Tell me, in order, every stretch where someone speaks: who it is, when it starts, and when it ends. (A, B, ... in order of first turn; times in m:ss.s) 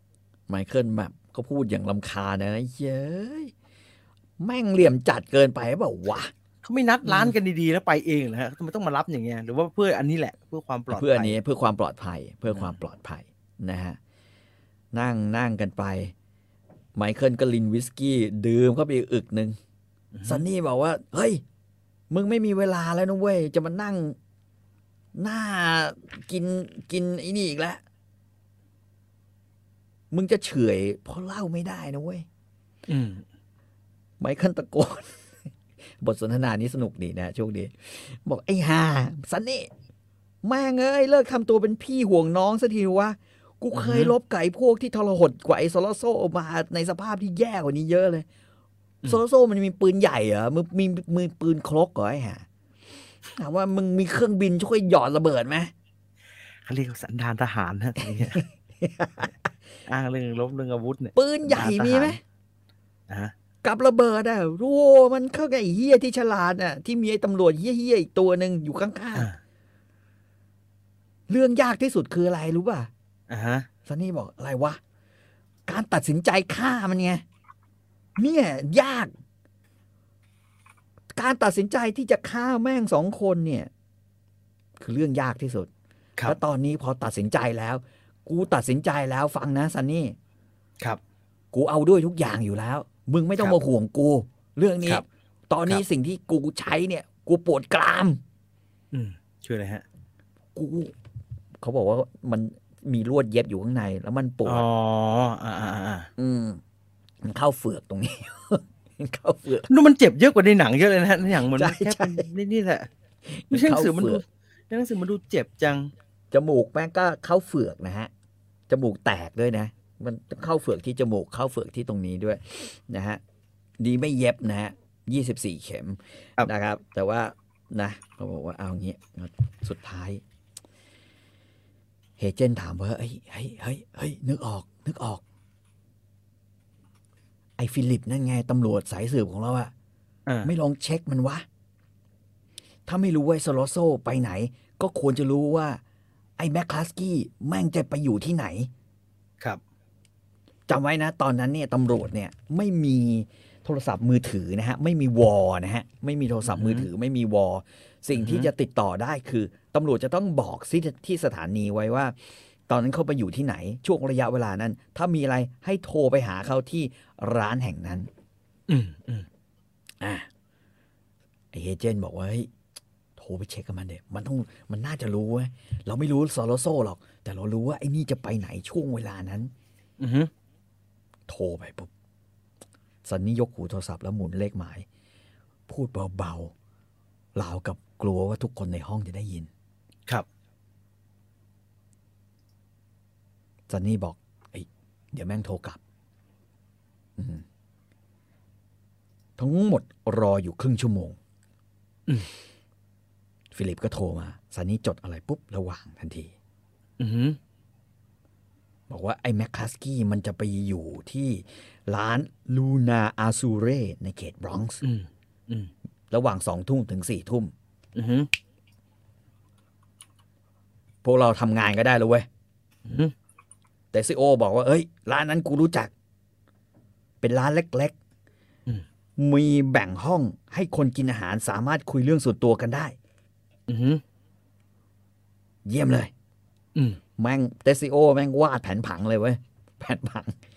0:00.5-0:03.5 A
0:04.4-0:06.3 A
0:06.6-0:11.4 B
0:07.0-0:07.4 A
0:10.9-0:14.0 A
0:12.5-0:12.7 B
0:14.9-0:16.1 A
0:17.0-0:19.6 A
0:20.1-0:20.4 B
0:20.2-0:21.4 A
0:22.1-0:24.2 A
0:25.1-0:27.8 A
0:30.1-0:32.2 A
0:32.9-0:33.2 B
0:34.2-0:35.2 A
0:36.0-0:39.7 A
0:40.4-0:48.2 A
0:43.7-0:44.1 B
0:49.0-0:52.4 A
0:53.3-0:55.7 A
0:56.6-0:58.4 B
0:58.3-0:59.3 A
0:59.9-1:02.2 B
1:01.2-1:02.2 A
1:03.6-1:09.3 A
1:11.3-1:12.9 A
1:13.3-1:13.7 B
1:13.8-1:14.8 A
1:15.7-1:17.2 A
1:18.2-1:19.1 A
1:21.1-1:23.7 A
1:24.8-1:25.7 A
1:26.2-1:30.2 A
1:31.5-1:38.2 A
1:38.9-1:39.8 B
1:40.5-1:40.9 A
1:41.6-1:44.6 A
1:44.4-1:46.1 B
1:46.2-1:46.6 A
1:47.2-1:49.7 A
1:49.7-1:52.9 B
1:51.4-1:52.2 A
1:53.3-1:54.2 A
1:53.5-1:55.9 B
1:56.3-1:58.1 A
1:58.7-2:03.2 A
2:03.8-2:10.2 A
2:12.2-2:15.2 A
2:17.6-2:19.7 A
2:20.3-2:20.5 B
2:20.4-2:21.4 A
2:22.9-2:25.8 A
2:26.4-2:28.7 A
2:30.7-2:42.2 A
2:36.4-2:36.9 B
2:38.1-2:38.5 B
2:42.7-2:48.1 A
2:48.7-2:49.3 B
2:50.0-2:50.3 A
2:51.5-2:52.5 A
2:53.2-2:59.5 A
3:00.0-3:00.3 B
3:01.3-3:01.9 A
3:03.0-3:04.8 A
3:05.7-3:06.5 A
3:07.3-3:09.5 A
3:13.7-3:15.8 A
3:17.2-3:17.4 A
3:19.4-3:21.2 A
3:23.5-3:26.3 A
3:27.0-3:27.4 B
3:28.9-3:34.8 A
3:34.8-3:35.7 B
3:36.1-3:37.5 A
3:38.0-3:38.3 B
3:41.0-3:42.2 A
3:42.8-3:43.1 B
3:43.9-3:45.9 A
3:47.2-3:47.9 A
3:49.2-3:52.9 A
3:53.7-3:54.0 B
3:55.6-3:56.1 A
3:57.2-4:00.4 A